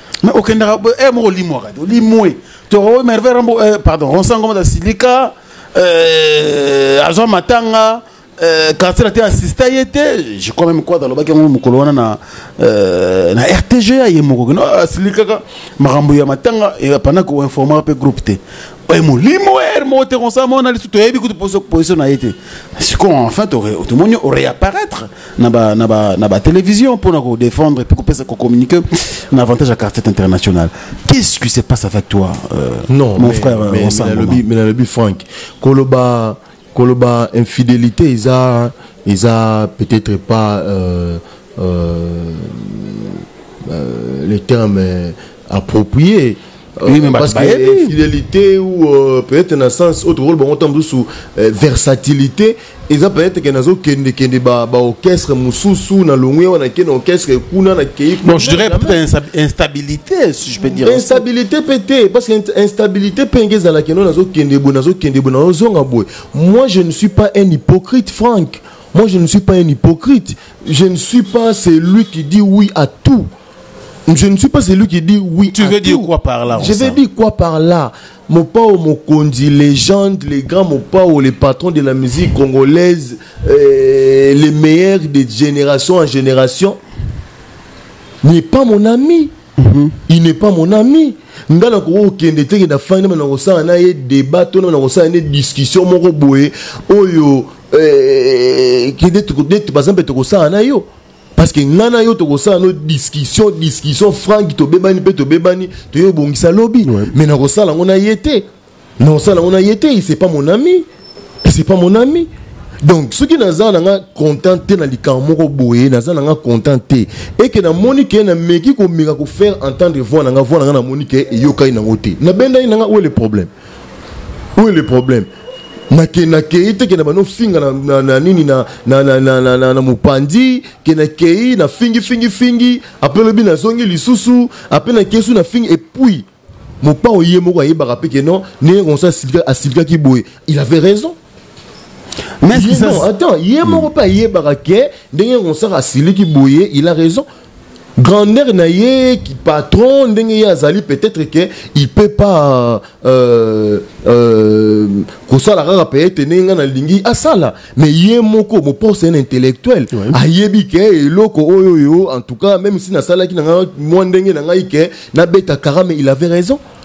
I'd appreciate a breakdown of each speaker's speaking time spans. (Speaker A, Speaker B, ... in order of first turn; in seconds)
Speaker A: 0.2-34.4, 46.9-48.0, 58.2-61.2, 75.5-77.0, 89.6-90.0, 106.8-107.1, 142.4-143.1
Speaker B: 32.9-59.0, 60.6-73.3, 74.1-86.8, 88.2-89.3, 90.1-108.5, 109.0-110.9, 111.4-112.3, 112.8-123.5, 124.6-125.3, 125.9-136.3, 136.8-141.2, 142.5-147.3, 148.0-166.6